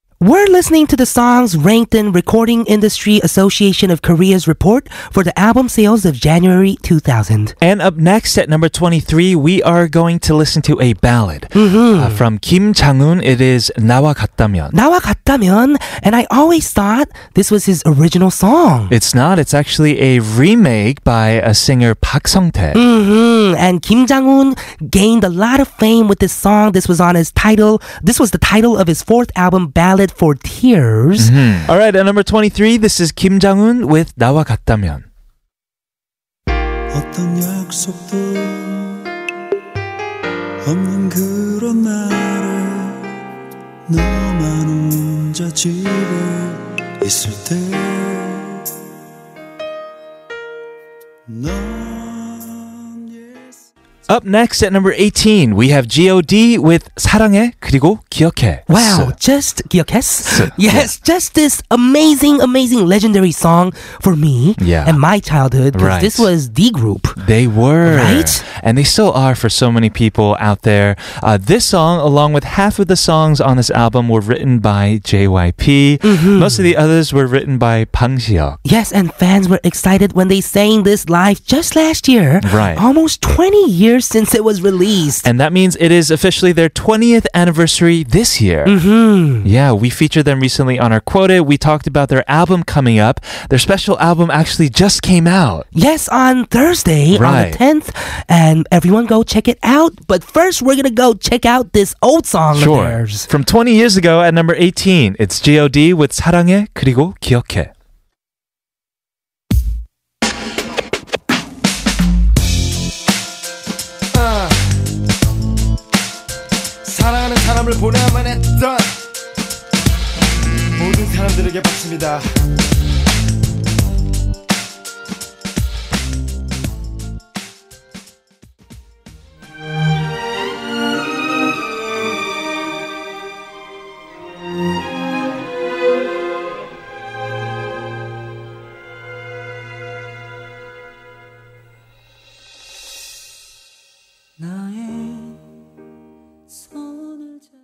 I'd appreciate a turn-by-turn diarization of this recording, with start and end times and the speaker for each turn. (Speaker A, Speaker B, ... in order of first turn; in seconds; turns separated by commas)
Speaker A: 0.2-7.5, Speaker B: 7.6-14.8, Speaker A: 11.5-12.2, Speaker A: 14.7-18.9, Speaker B: 18.9-22.8, Speaker A: 22.7-31.3, Speaker B: 31.2-35.0, Speaker C: 36.9-39.1, Speaker C: 40.6-43.0, Speaker C: 43.9-48.6, Speaker C: 51.3-53.7, Speaker B: 54.1-59.1, Speaker A: 58.7-67.2, Speaker B: 60.2-60.9, Speaker B: 64.6-65.0, Speaker B: 65.7-66.3, Speaker B: 67.2-78.6, Speaker A: 67.8-68.4, Speaker A: 76.0-76.7, Speaker A: 78.7-85.3, Speaker B: 82.4-82.8, Speaker B: 85.2-88.8, Speaker A: 88.7-89.5, Speaker B: 89.4-95.7, Speaker A: 95.7-103.3, Speaker B: 97.1-97.6, Speaker B: 102.5-107.7, Speaker C: 144.4-145.4, Speaker C: 146.5-147.5